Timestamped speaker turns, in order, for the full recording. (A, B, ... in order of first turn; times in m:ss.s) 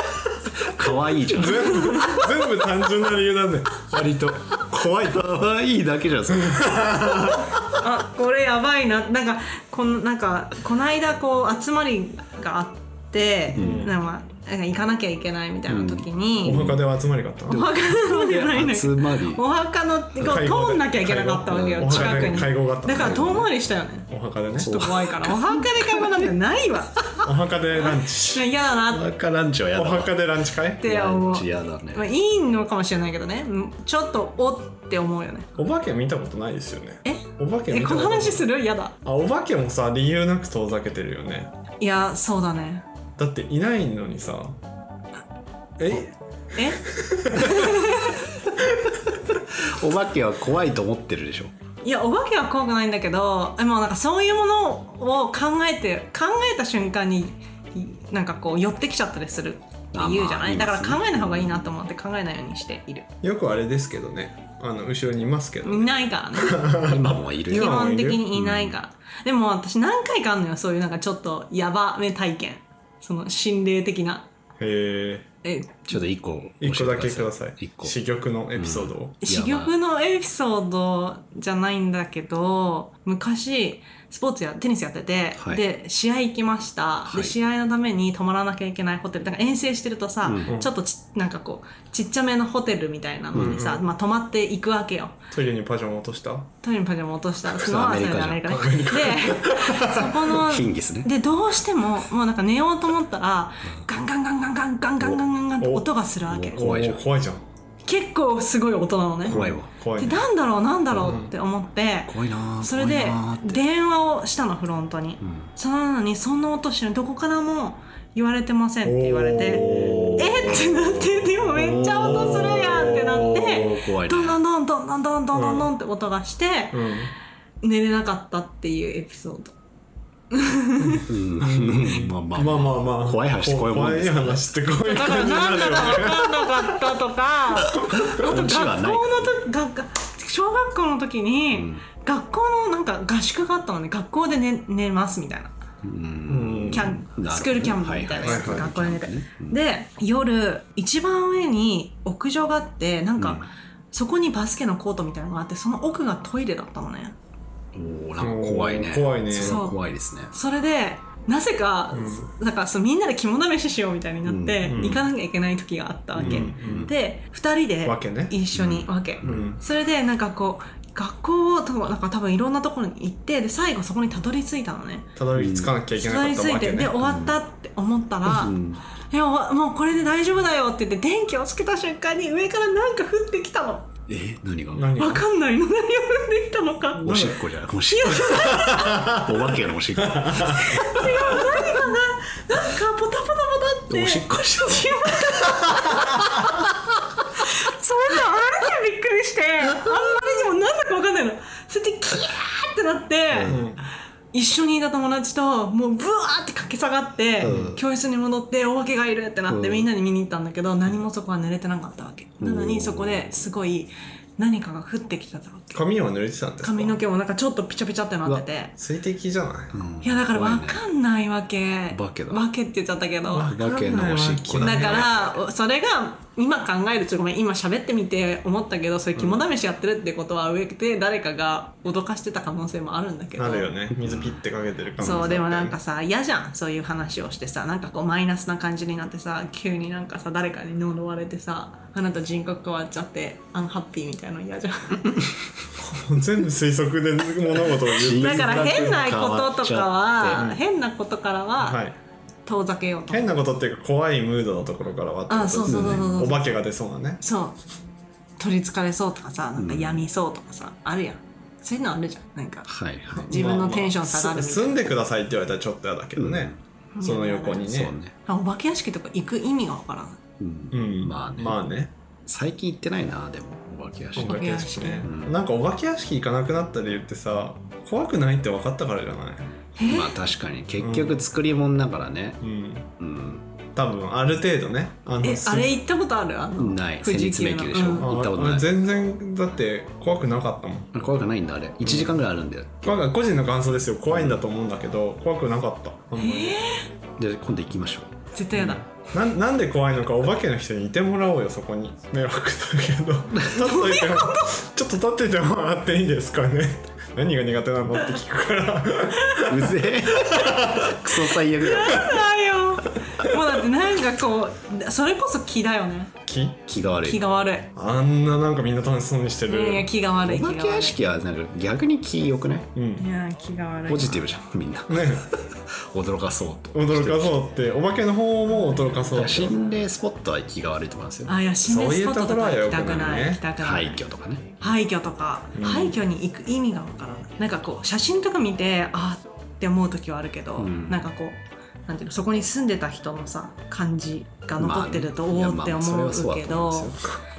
0:00.6-0:02.0 A
0:01.3-0:05.3 B
0:01.5-0:02.2 C
0:05.0-0:07.7 A
0:06.4-0:07.4 B
0:07.8-0:16.6 C
0:13.5-0:14.0 B
0:13.5-0:13.9 A
0:15.7-0:16.8 A
0:16.4-0:17.6 B
0:17.5-0:19.4 A
0:17.5-0:24.1 C
0:20.2-0:23.5 B
0:21.5-0:23.5 A
0:24.1-0:24.7 B
0:24.6-0:26.1 A
0:24.6-0:29.1 C
0:27.2-0:28.5 B
0:28.9-0:30.2 A
0:29.8-0:30.8 B
0:30.8-0:32.1 A
0:30.8-0:35.5 C
0:35.6-0:38.5 B
0:37.0-0:39.0 C
0:39.0-0:41.5 B
0:41.8-0:42.8 C
0:43.2-0:44.6 B
0:45.8-0:46.1 B
0:46.6-0:46.8 C
0:47.0-0:47.6 B
0:47.3-0:48.2 C
0:49.6-0:51.5 A
0:51.8-1:03.1 C
0:59.9-1:01.8 A
1:03.2-1:08.2 B
1:05.6-1:06.7 C
1:06.8-1:08.8 A
1:07.5-1:14.3 C
1:14.6-1:15.3 B
1:15.4-1:15.8 C
1:15.9-1:18.0 A
1:16.6-1:19.1 B
1:18.6-1:19.8 A
1:19.2-1:35.2 C
1:25.4-1:25.6 A
1:27.1-1:27.4 A
1:30.2-1:30.5 A
1:33.3-1:33.6 A
1:33.3-1:33.8 B
1:35.3-1:36.5 B
1:36.6-1:46.6 C
1:37.5-1:38.6 A
1:38.5-1:40.2 B
1:40.2-1:41.1 A
1:45.0-1:45.9 B
1:46.3-1:47.0 A
1:46.5-1:47.4 B
1:47.8-1:49.4 C
1:49.2-1:50.2 B
1:49.3-1:49.7 A
1:50.0-1:59.6 C
1:50.9-1:51.3 B
1:52.1-1:53.6 A
1:55.2-1:55.5 A
1:58.8-2:00.7 B
1:59.6-2:00.6 A
2:00.2-2:06.8 C
2:01.5-2:03.8 B
2:01.7-2:02.5 A
2:03.5-2:04.4 A
2:05.3-2:05.7 B
2:06.7-2:07.1 B
2:07.6-2:09.5 C
2:10.3-2:11.0 C
2:10.9-2:16.7 B
2:11.0-2:14.5 A
2:14.8-2:25.5 C
2:17.7-2:19.4 A
2:17.9-2:18.3 B
2:21.5-2:21.8 A
2:25.8-2:29.6 A
2:26.3-2:27.0 B
2:26.7-2:37.2 C
2:28.2-2:28.7 B
2:33.2-2:33.5 A
2:37.7-2:40.3 A
2:38.2-2:39.6 B
2:39.4-2:39.8 C
2:40.3-2:55.1 C
2:41.9-2:42.2 B
2:44.2-2:45.0 A
2:44.7-2:45.0 B
2:46.2-2:46.9 B
2:46.2-2:46.9 A
2:47.8-2:48.4 B
2:48.5-2:49.5 A
2:49.2-2:49.6 B
2:55.2-2:57.0 B
2:55.3-2:55.8 A
2:55.9-2:58.5 C
2:57.0-2:57.4 A
2:58.2-2:58.8 A
2:59.1-3:03.9 C
3:04.1-3:05.0 A
3:04.7-3:05.2 B
3:05.0-3:07.2 C
3:07.0-3:10.8 A
3:07.0-3:07.3 B
3:07.9-3:09.2 C
3:08.7-3:09.2 B
3:10.1-3:10.5 B
3:10.4-3:16.5 C
3:13.9-3:15.0 A
3:17.4-3:23.6 C
3:23.3-3:23.6 A
3:23.5-3:23.8 B
3:24.3-3:35.8 C
3:27.4-3:27.8 A
3:29.5-3:29.9 A
3:32.4-3:33.3 A
3:35.7-3:37.0 B
3:36.6-3:38.7 C
3:38.8-3:39.8 B
3:39.7-3:40.8 A
3:40.0-3:43.6 C
3:41.9-3:42.4 A
3:43.3-3:45.3 B
3:43.5-3:45.2 A
3:44.6-3:53.7 C
3:49.2-3:49.4 B
3:53.4-3:55.8 B
3:54.0-3:54.4 A
3:55.0-4:05.0 C
4:05.8-4:09.5 B
4:07.9-4:10.5 A
4:08.0-4:11.8 C
4:10.3-4:10.6 B
4:11.6-4:12.0 B
4:12.5-4:13.3 C
4:13.1-4:17.2 B
4:15.3-4:16.5 C
4:15.7-4:16.2 A
4:17.2-4:17.6 C
4:18.4-4:22.7 C
4:19.6-4:20.1 A
4:22.7-4:23.3 A
4:23.2-4:28.0 B
4:23.3-4:24.9 C
4:26.2-4:26.6 A
4:27.0-4:27.7 C
4:27.6-4:28.1 A
4:28.2-4:30.2 C
4:30.4-4:31.6 A
4:30.7-4:31.9 B
4:32.2-4:34.4 A
4:34.2-4:39.5 B
4:34.2-4:35.1 C
4:35.0-4:35.4 A
4:39.8-4:40.2 C
4:39.8-4:42.4 A
4:40.8-4:41.2 B
4:42.4-4:42.9 B
4:43.0-4:43.4 A
4:43.8-4:45.7 B
4:45.2-4:48.1 C
4:46.6-4:48.7 A
4:48.0-4:50.9 B
4:50.9-4:53.0 A
4:51.8-4:52.2 B
4:52.8-4:56.6 B
4:54.1-4:54.4 A
4:56.2-4:56.9 C
4:57.2-4:58.1 A
4:58.3-4:58.8 C
4:58.5-5:11.2 B
5:03.6-5:04.6 C
5:09.5-5:12.2 A
5:11.6-5:16.1 C
5:16.3-5:16.8 B
5:16.7-5:17.2 A
5:17.0-5:17.7 C
5:17.8-5:19.9 B
5:19.5-5:21.0 C
5:20.2-5:22.7 A
5:22.8-5:23.0 B
5:23.0-5:24.2 C
5:23.9-5:27.4 A
5:24.9-5:25.3 B
5:26.7-5:29.6 B
5:28.5-5:29.0 C
5:29.1-5:31.3 A
5:31.3-5:34.1 C
5:31.6-5:33.4 B
5:33.6-5:34.5 A
5:34.6-5:47.0 C
5:35.5-5:36.0 B
5:40.6-5:41.0 A
5:44.6-5:47.1 A